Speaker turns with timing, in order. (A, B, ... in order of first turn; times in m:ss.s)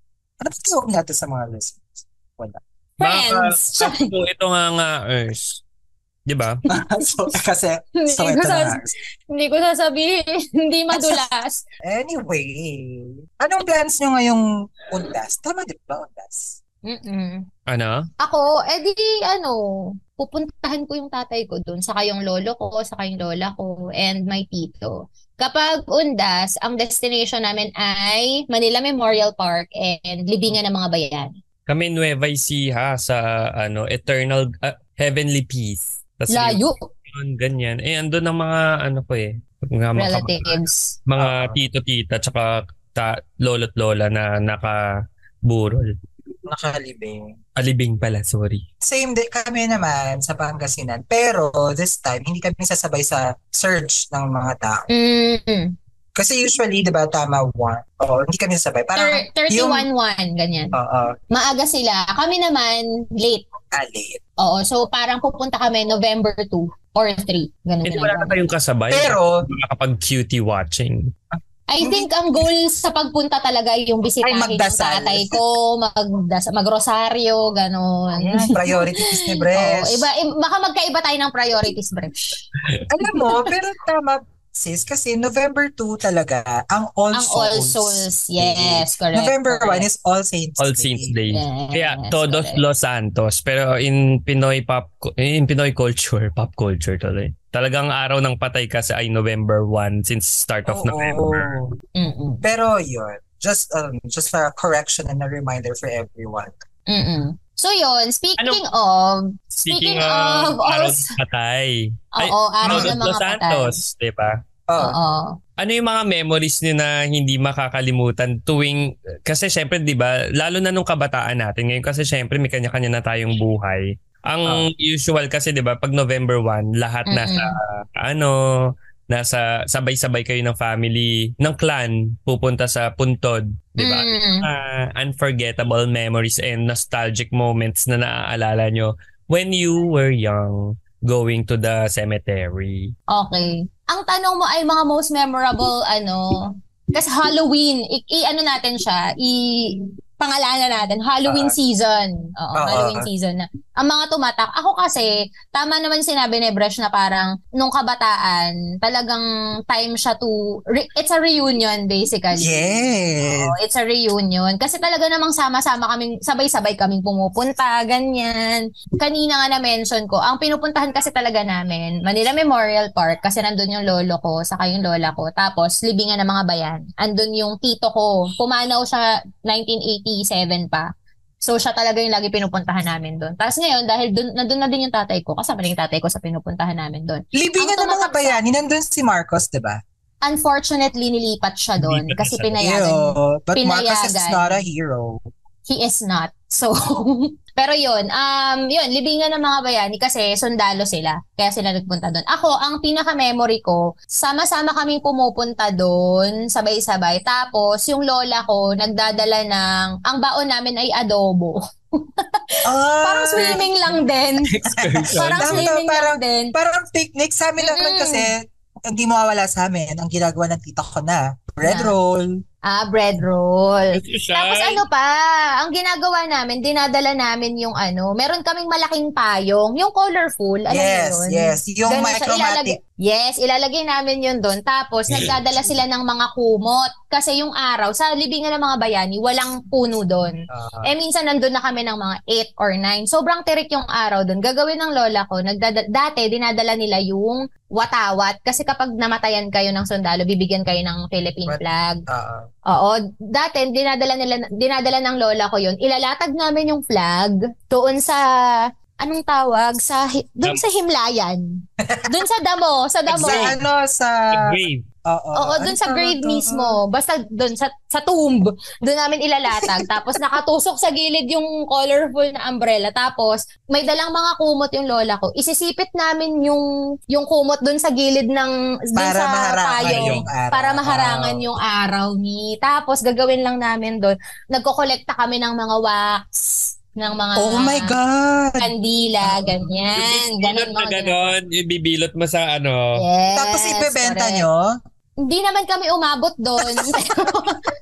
0:00.4-0:01.8 A
0:03.0-0:04.1 B
0:03.0-0:05.6 C
0:06.3-0:06.6 C
0:06.7-0:08.9 A
0:08.0-0:11.6 B
0:10.9-0:11.2 A
0:11.8-0:16.6 A
0:16.8-0:17.4 B
0:17.7-0:18.0 C
0:18.2-0:31.3 B
0:31.7-0:44.8 C
0:36.3-0:36.8 B
0:40.0-0:41.0 B
0:41.2-0:41.6 A
0:45.5-0:45.9 C
0:46.5-0:47.4 A
0:47.6-0:48.6 C
0:48.8-0:54.9 A
0:54.9-0:55.7 B
0:56.2-0:59.8 A
0:59.0-1:00.7 B
1:00.7-1:01.1 A
1:01.3-1:03.5 B
1:03.7-1:04.2 A
1:04.4-1:08.4 B
1:07.8-1:11.1 C
1:08.9-1:09.4 A
1:11.3-1:12.1 A
1:11.7-1:22.4 B
1:14.2-1:15.4 A
1:18.2-1:20.1 A
1:22.9-1:31.1 A
1:27.1-1:29.8 B
1:30.6-1:41.6 C
1:31.3-1:32.6 B
1:40.6-1:41.7 A
1:42.0-1:42.4 B
1:42.4-1:46.6 A
1:46.9-1:51.1 B
1:49.6-1:54.4 C
1:52.1-1:53.7 B
1:54.7-1:55.0 A
1:54.8-1:55.4 B
1:55.6-2:22.9 C
2:07.1-2:07.6 B
2:13.8-2:14.4 B
2:23.1-3:00.9 B
2:31.3-2:31.5 A
2:32.5-2:33.0 A
2:42.4-2:43.5 A
3:01.4-3:08.4 B
3:07.3-3:09.8 A
3:10.2-3:14.6 B
3:11.8-3:12.5 C
3:12.6-3:15.2 A
3:15.7-3:34.5 B
3:32.6-3:33.6 A
3:34.5-3:35.6 C
3:34.8-3:42.4 A
3:35.1-3:36.5 B
3:37.6-3:38.3 B
3:41.6-3:42.0 B
3:42.6-4:12.0 B
3:43.9-3:44.8 C
3:50.7-3:52.8 A
4:00.5-4:00.9 A
4:11.5-4:12.4 A
4:12.7-4:23.6 B
4:23.1-4:23.6 C
4:23.1-4:24.3 A
4:24.3-4:24.8 C
4:25.1-4:26.8 A
4:25.3-4:48.0 B
4:29.6-4:30.2 A
4:39.0-4:41.4 A
4:39.9-4:40.3 C
4:47.4-4:48.7 A
4:48.6-4:51.3 B
4:49.2-4:49.7 A
4:49.9-4:53.0 C
4:53.0-4:54.4 B
4:53.3-4:54.7 A
4:55.2-4:57.7 B
4:56.6-4:57.6 A